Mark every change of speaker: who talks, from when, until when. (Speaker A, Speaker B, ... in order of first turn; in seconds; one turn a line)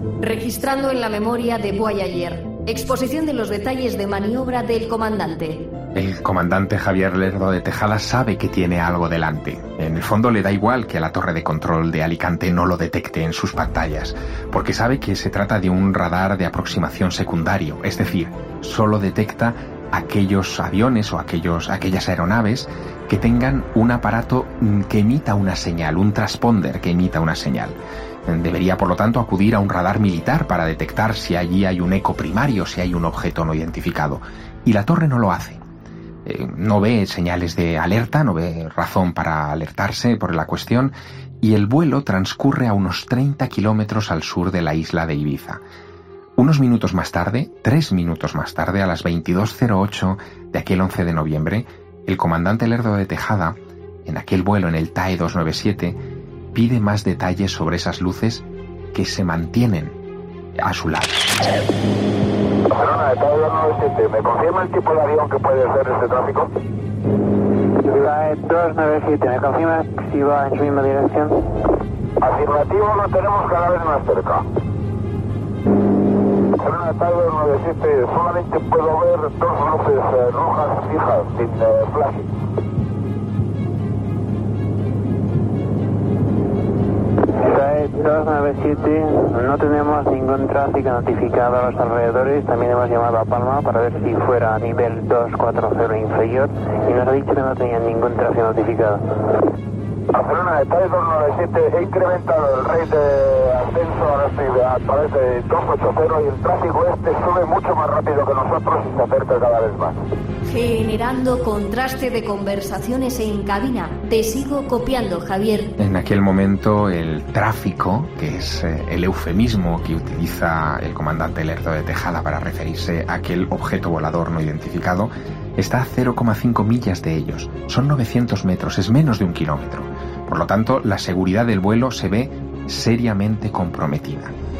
Speaker A: 0.2-5.7
Speaker B: 5.9-35.6
Speaker B: 36.2-45.6
Speaker B: 46.4-56.0
Speaker B: 56.5-60.0
Speaker B: 60.6-61.2
Speaker C: 62.7-66.5
Speaker D: 67.8-71.4
Speaker C: 72.2-74.5
Speaker C: 76.6-82.3
Speaker D: 87.4-99.0
Speaker C: 100.1-110.0
Speaker A: 110.5-115.7
Speaker B: 115.8-134.3